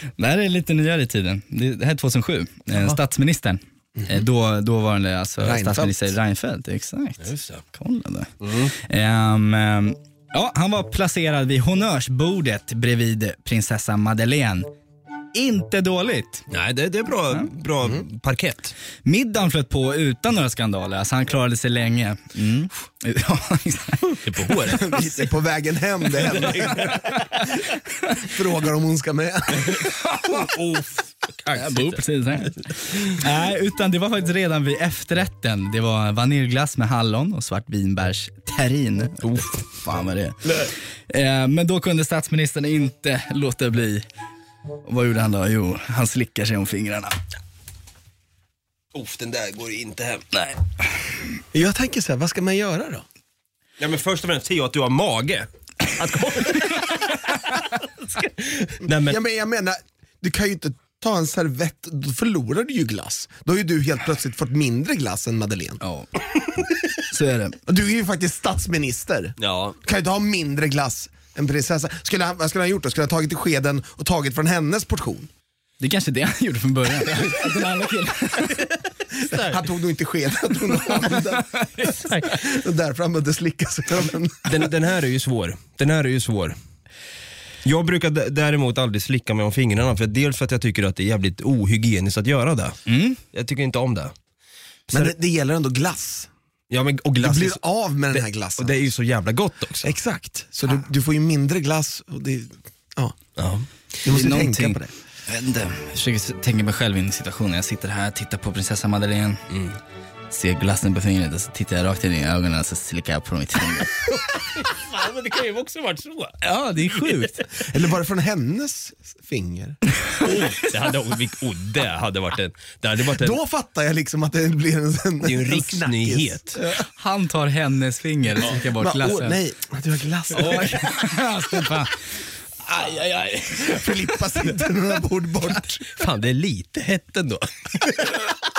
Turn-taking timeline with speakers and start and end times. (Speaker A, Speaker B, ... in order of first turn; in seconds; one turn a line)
Speaker A: 0.2-14.7
Speaker B: 4.0-4.3
Speaker B: 5.4-6.2
Speaker C: 7.2-7.6
Speaker C: 8.4-8.7
Speaker A: 15.3-16.4
Speaker C: 16.5-18.7
Speaker A: 19.0-24.9
Speaker C: 24.2-24.9
Speaker B: 24.7-27.1
Speaker C: 26.2-27.1
Speaker B: 28.2-29.8
Speaker C: 29.6-32.0
Speaker A: 30.1-30.5
Speaker A: 31.5-40.5
Speaker A: 41.1-44.0
Speaker A: 44.8-47.2
Speaker C: 48.9-50.3
Speaker B: 51.5-53.0
Speaker C: 53.8-59.2
Speaker B: 59.0-65.8
Speaker A: 65.8-66.1
Speaker A: 67.1-67.5
Speaker B: 67.7-75.3
Speaker C: 69.4-69.8
Speaker A: 75.8-78.6
Speaker C: 79.2-79.6
Speaker B: 79.3-84.6
Speaker A: 81.3-82.2
Speaker C: 84.5-86.5
Speaker C: 87.6-92.8
Speaker A: 92.9-93.2
Speaker C: 93.3-94.1
Speaker B: 94.9-96.3
Speaker C: 96.7-99.9
Speaker B: 97.2-98.8
Speaker B: 99.8-103.2
Speaker C: 103.4-103.7
Speaker B: 104.0-104.9
Speaker A: 104.0-109.4
Speaker C: 109.5-109.8
Speaker A: 110.3-113.9
Speaker C: 114.0-116.4
Speaker A: 116.4-117.4
Speaker C: 117.0-117.4
Speaker B: 117.6-119.8
Speaker C: 120.2-123.4
Speaker B: 123.1-126.8
Speaker C: 125.2-126.6
Speaker A: 127.0-129.4
Speaker B: 128.7-130.8
Speaker A: 130.3-132.0
Speaker A: 132.6-134.4
Speaker B: 133.6-135.9
Speaker C: 135.9-138.1